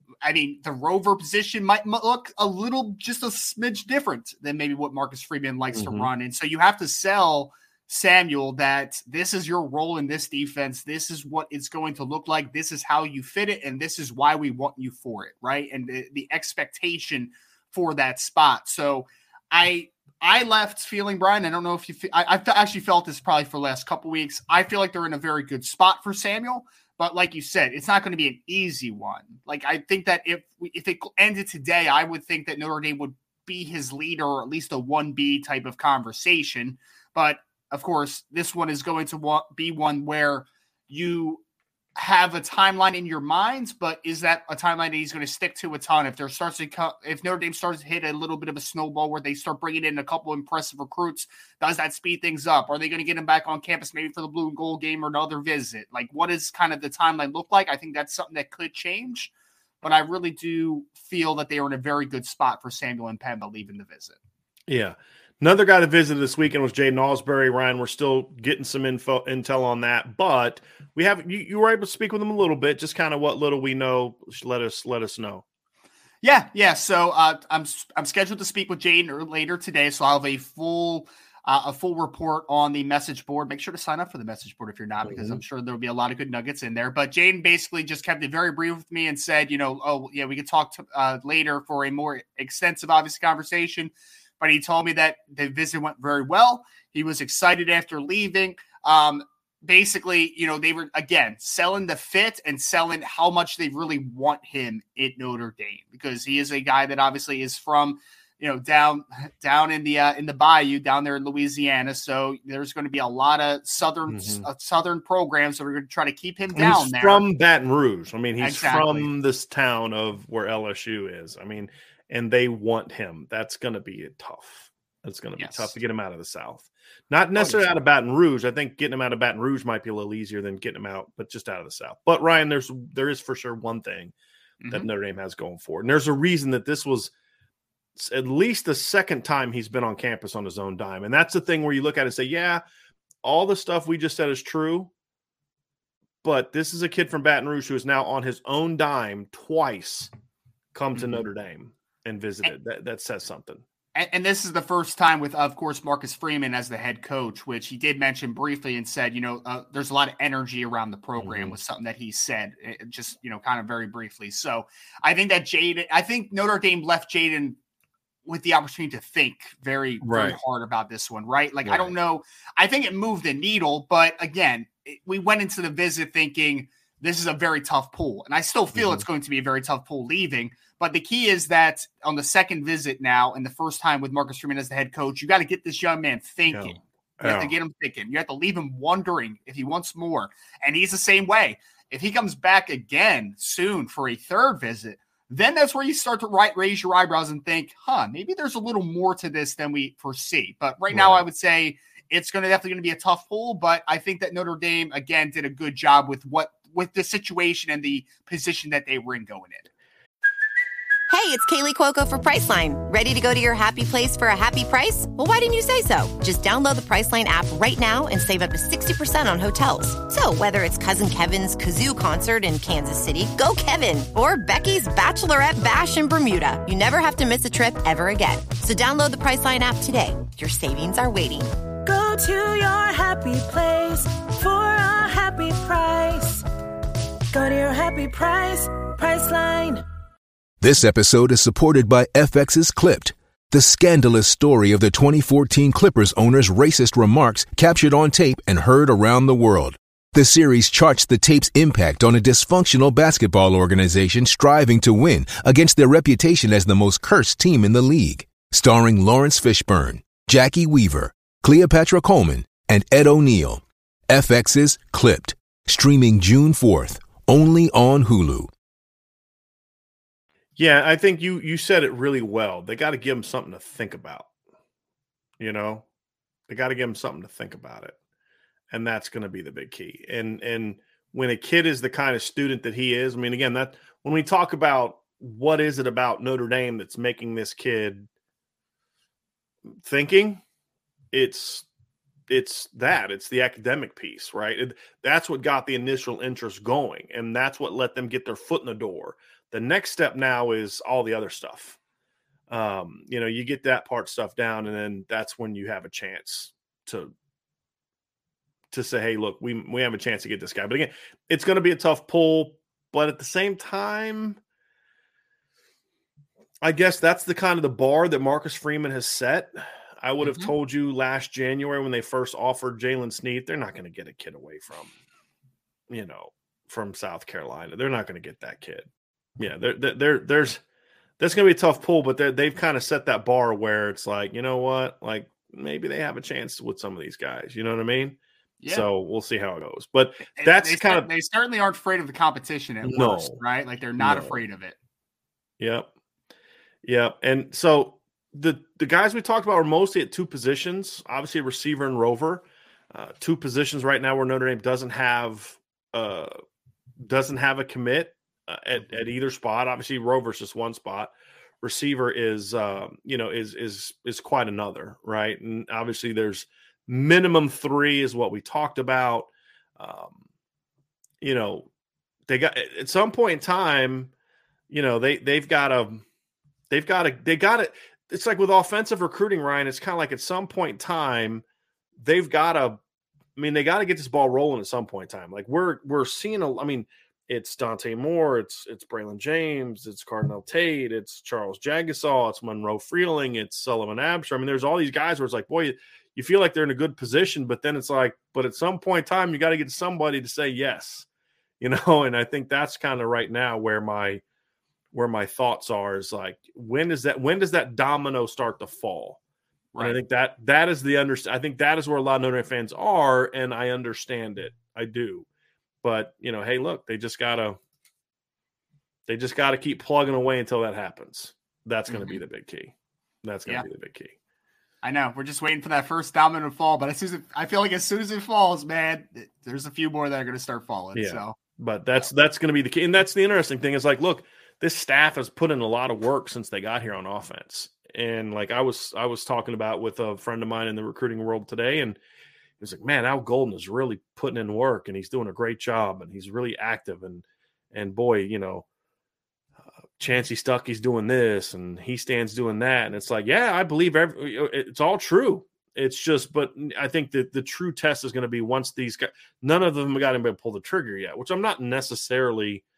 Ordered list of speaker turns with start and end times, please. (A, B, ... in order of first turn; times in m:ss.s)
0:00.2-0:41.4 A
0:05.7-0:06.1 B
0:42.0-0:59.3 A
0:59.8-1:04.2 A
1:04.7-1:15.4 B
1:16.2-1:57.2 A
1:25.0-1:25.4 B
1:54.1-1:54.5 B
1:56.6-2:14.1 B
1:58.4-1:59.1 A
2:05.4-2:05.7 A
2:07.4-2:07.8 A
2:14.6-2:14.9 A
2:14.7-2:17.1 B
2:18.0-2:22.6 B
2:23.2-2:24.9 B
2:26.2-2:30.1 B
2:30.7-2:33.6 B
2:31.0-2:31.3 A
2:34.0-2:47.6 A
2:41.2-2:41.6 B
2:48.3-3:29.7 A
2:50.0-2:50.4 B
2:51.7-2:51.9 B
2:58.8-2:59.1 B
3:06.5-3:07.6 B
3:20.9-3:21.2 B
3:31.1-3:51.5 C
3:51.8-3:56.4 D
3:57.3-3:59.8 D
4:00.6-4:28.5 E
4:30.6-4:34.3 B
4:35.4-4:35.8 B
4:36.5-4:38.0 B
4:38.7-4:48.1 B
4:49.8-4:50.4 B
4:51.1-4:51.7 B
4:52.3-5:01.8 B
5:02.5-5:07.1 B
5:08.7-5:14.4 B
5:16.6-5:24.9 B
5:20.2-5:20.5 A
5:25.9-5:28.9 B
5:29.4-5:30.6 B
5:31.2-5:38.2 B
5:38.6-5:38.9 A
5:38.7-5:41.1 B
5:40.4-5:44.8 A
5:42.8-5:43.4 B
5:44.0-5:44.4 B
5:45.6-5:45.9 B
5:46.8-5:56.3 B
5:57.0-6:10.2 B
6:11.2-6:11.7 B
6:12.3-6:14.1 B
6:14.7-6:16.0 B
6:16.7-6:21.4 B
6:22.0-6:22.8 B
6:23.4-6:41.1 B
6:41.6-6:44.2 B
6:44.9-6:49.2 B
6:49.7-6:50.0 A
6:49.8-6:55.3 B
6:55.8-6:57.6 B
6:59.1-7:02.7 B
7:01.9-7:02.2 A
7:03.2-7:04.2 B
7:04.8-7:11.4 A
7:10.9-7:22.0 B
7:22.6-7:28.7 B
7:30.0-7:42.6 B